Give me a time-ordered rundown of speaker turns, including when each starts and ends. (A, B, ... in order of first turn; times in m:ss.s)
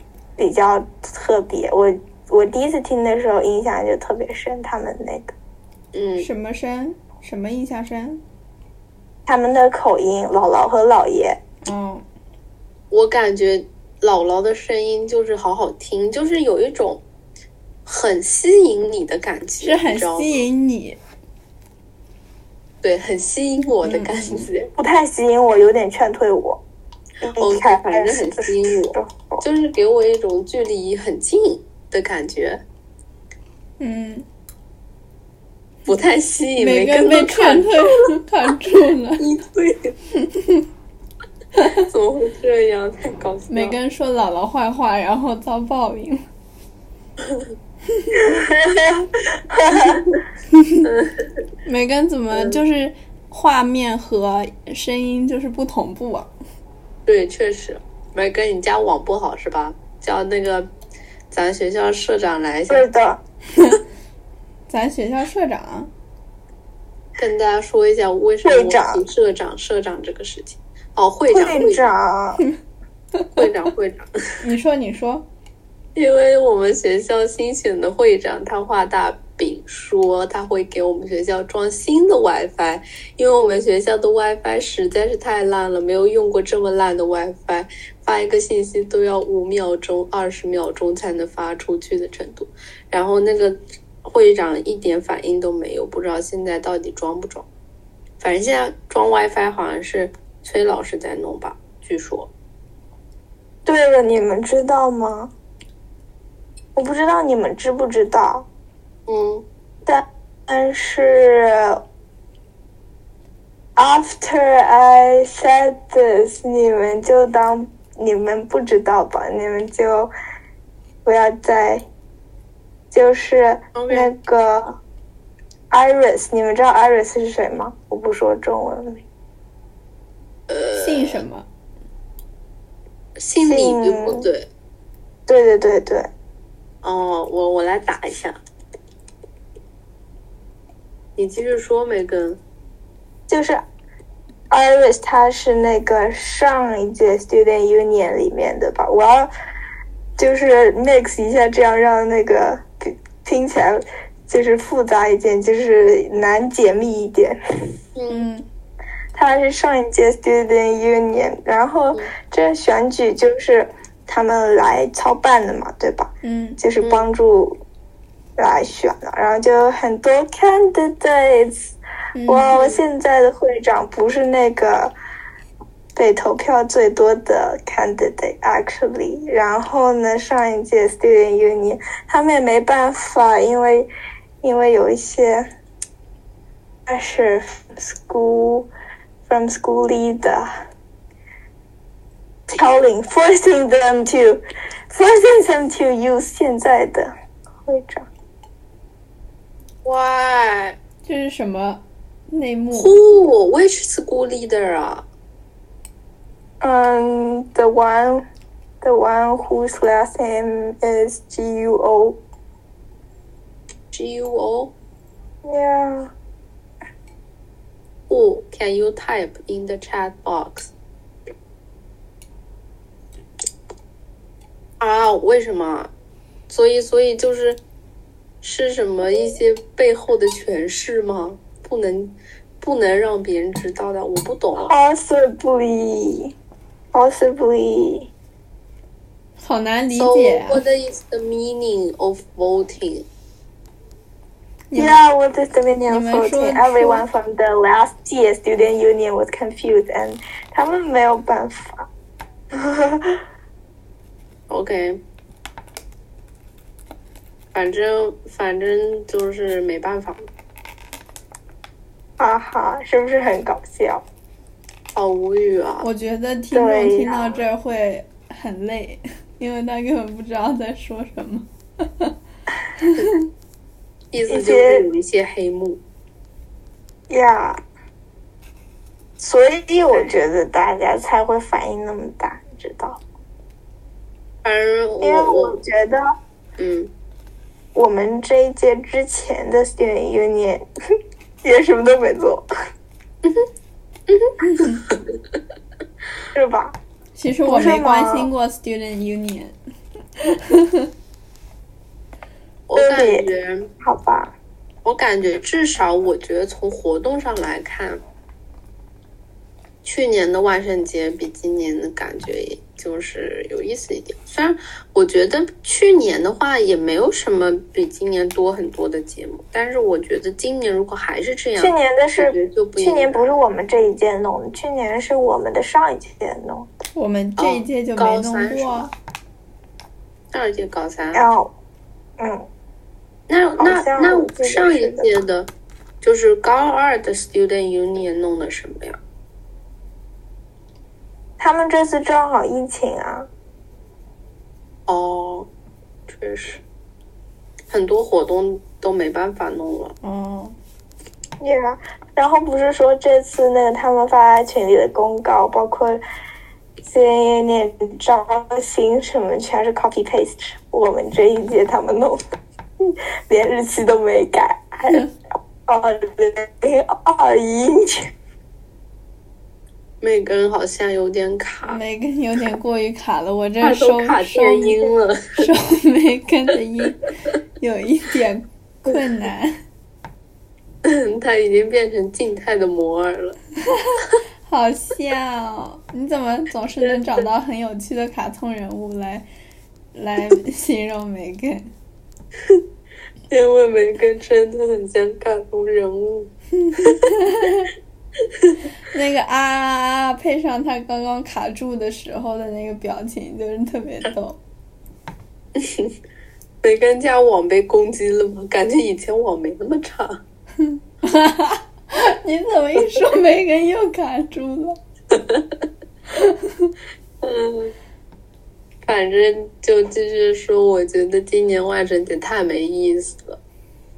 0:00.4-0:05.3 A
0:05.9-0:06.3 B
0:06.2-0:08.2 C
0:09.3-0:11.4 A
0:11.6-0:12.0 C
0:12.9-0:17.0 B
0:17.9-0:20.3 B
0:19.6-0:21.0 C
0:22.8-0:24.7 B
0:23.8-0:24.5 C
0:24.8-0:26.6 A
0:27.2-0:29.4 A
0:27.4-0:32.6 B
0:33.8-0:34.3 C
0:35.9-0:38.0 B
0:36.6-0:39.2 C
0:39.2-0:40.0 B
0:40.2-0:40.6 C
0:41.6-0:43.8 B
0:43.5-0:46.2 C
0:48.0-0:48.2 C
0:48.1-0:50.0 A
0:49.9-0:50.2 B
0:50.5-0:50.8 C
0:50.8-0:51.3 B
0:51.6-0:56.3 C
0:52.3-0:52.6 B
0:57.1-1:00.7 B
1:01.3-1:02.9 B
1:02.7-1:03.2 A
1:04.7-1:05.9 C
1:07.2-1:11.9 B
1:08.4-1:09.1 A
1:11.3-1:12.4 A
1:13.4-1:14.1 B
1:14.4-1:15.3 C
1:16.0-1:37.5 B
1:38.2-1:42.3 B
1:43.7-1:45.3 A
1:46.8-1:48.5 A
1:49.1-1:49.4 B
1:49.9-1:51.8 A
1:53.8-2:00.1 A
2:01.0-2:01.8 A
2:02.9-2:04.8 A
2:03.8-2:04.1 B
2:05.7-2:09.0 A
2:10.5-2:11.2 B
2:10.8-2:11.5 C
2:13.2-2:14.5 B
2:13.4-2:14.3 A
2:15.3-2:16.1 A
2:16.8-2:18.4 B
2:21.2-2:22.4 B
2:23.3-2:23.6 A
2:24.5-2:29.3 A
2:30.2-2:37.4 A
2:38.0-2:38.3 B
2:38.1-2:38.4 C
2:39.1-2:47.6 A
2:46.2-2:46.6 C
2:46.8-2:47.1 B
2:48.4-2:51.7 A
2:52.2-2:52.6 C
2:52.3-2:54.9 A
2:52.5-2:52.8 B
2:56.0-3:03.9 A
3:04.4-3:05.5 A
3:06.9-3:08.7 A
3:09.3-3:10.5 A
3:12.5-3:17.1 A
3:17.6-3:18.1 A
3:19.8-3:20.8 B
3:21.0-3:23.0 C
3:22.7-3:25.0 B
3:26.6-3:28.2 A
3:28.8-3:32.2 A
3:33.9-3:34.7 B
3:35.4-3:36.1 A
3:38.1-3:40.7 B
3:44.8-3:45.9 B
3:46.5-3:47.6 B
3:48.4-3:54.7 B
3:54.6-3:56.4 A
3:56.9-3:58.1 A
3:59.4-4:00.6 C
3:59.9-4:03.1 B
4:04.7-4:05.0 C
4:04.8-4:11.9 A
4:05.9-4:07.0 C
4:12.5-4:13.2 A
4:14.5-4:15.0 B
4:17.5-4:20.3 B
4:22.2-4:24.0 A
4:24.9-4:25.9 B
4:25.8-4:32.1 C
4:26.5-4:27.4 A
4:32.8-4:33.2 C
4:34.1-4:35.8 B
4:34.3-4:34.9 A
4:37.1-4:37.6 A
4:39.2-4:43.0 A
4:44.4-4:45.6 B
4:45.0-4:46.0 A
4:46.6-4:46.9 B
4:47.8-4:50.6 A
4:51.4-4:52.5 A
4:54.1-4:55.0 B
4:54.4-4:54.8 C
4:56.3-4:56.8 A
4:57.2-4:59.6 C
4:57.5-4:58.3 A
5:00.2-5:00.9 C
5:02.7-5:03.7 B
5:02.8-5:03.3 A
5:03.8-5:04.4 A
5:04.8-5:08.0 B
5:09.8-5:23.3 B
5:21.6-5:26.7 A
5:27.0-5:28.9 C
5:27.4-5:28.9 B
5:30.3-5:31.2 B
5:31.1-5:31.5 A
5:32.2-5:32.5 A
5:33.3-5:35.5 B
5:33.6-5:35.1 A
5:36.0-5:39.0 B
5:41.4-5:43.3 A
5:44.9-5:45.5 B
5:46.1-5:46.6 B
5:47.7-5:50.0 B
5:50.0-5:50.6 C
5:51.4-5:56.0 A
5:56.8-6:02.2 A
6:02.8-6:05.0 A
6:05.7-6:08.1 A
6:10.0-6:11.8 B
6:11.7-6:17.1 C
6:13.6-6:15.5 B
6:17.6-6:19.6 C
6:20.8-6:23.4 B
6:23.7-6:29.3 C
6:29.9-6:31.7 C
6:33.3-6:36.3 B
6:36.6-6:37.7 C
6:38.9-6:44.4 C
6:45.6-6:45.9 B
6:46.6-6:50.2 B
6:50.6-6:54.8 C
6:55.1-6:55.5 B
6:56.1-6:56.7 C
6:57.2-6:57.7 B
6:58.8-7:03.4 B